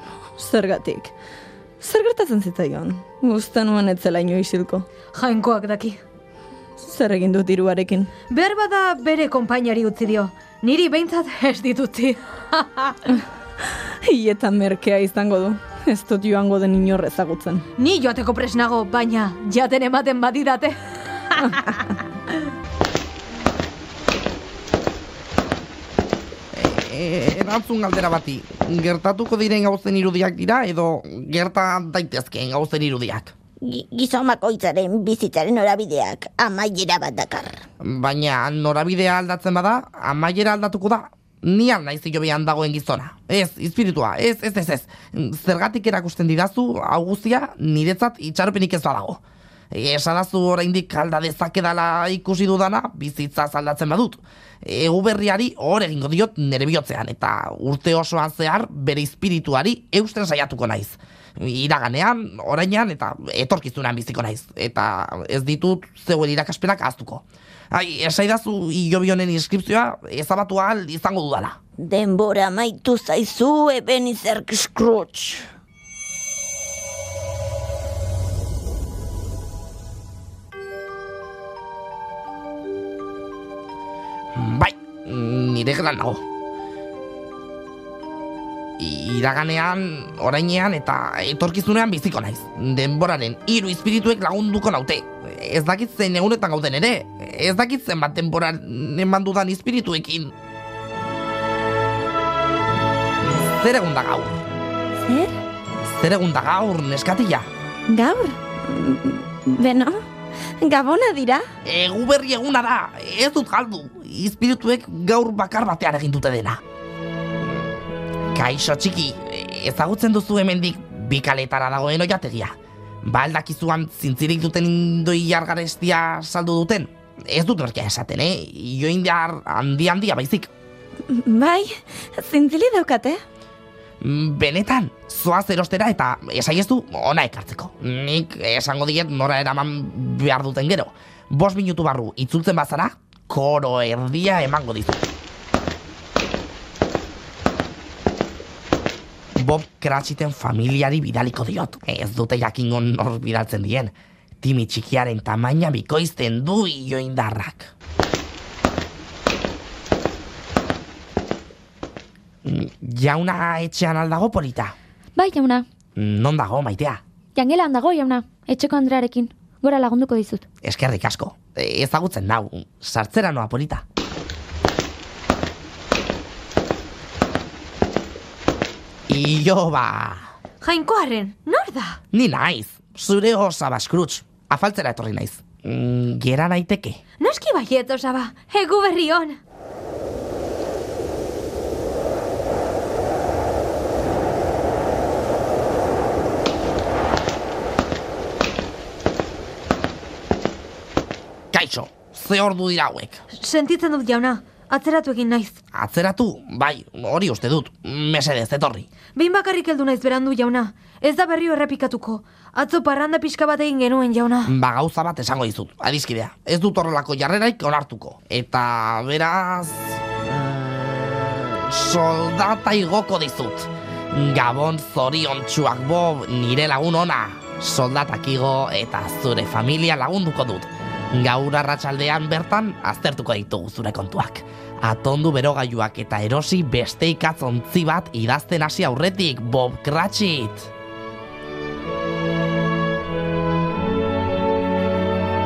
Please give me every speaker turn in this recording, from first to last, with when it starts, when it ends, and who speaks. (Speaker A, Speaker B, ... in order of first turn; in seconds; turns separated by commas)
Speaker A: 0.4-1.1, Speaker A: 1.8-4.9, Speaker B: 5.1-6.0, Speaker A: 6.8-8.1, Speaker B: 8.3-13.0, Speaker A: 14.0-17.6, Speaker B: 17.8-21.9, Speaker C: 26.5-33.3, Speaker D: 33.6-37.6, Speaker C: 37.8-49.2, Speaker C: 49.7-71.6, Speaker D: 71.8-75.5, Speaker C: 84.3-86.2, Speaker C: 88.8-100.3, Speaker C: 103.2-104.4, Speaker A: 105.0-105.3, Speaker C: 105.8-107.5, Speaker A: 107.9-110.0, Speaker A: 110.6-111.4, Speaker C: 111.7-116.6, Speaker C: 118.3-130.5, Speaker A: 131.1-133.2, Speaker C: 134.0-145.0, Speaker C: 149.4-157.7, Speaker C: 162.4-164.7, Speaker E: 165.2-165.7, Speaker C: 166.0-167.0, Speaker E: 167.3-170.4, Speaker C: 170.6-173.8, Speaker C: 179.1-180.3, Speaker B: 180.6-182.0, Speaker C: 182.1-187.0, Speaker B: 187.2-189.4, Speaker C: 201.5-203.2, Speaker B: 203.3-205.6, Speaker C: 205.7-208.9, Speaker B: 209.2-214.5, Speaker C: 214.4-240.7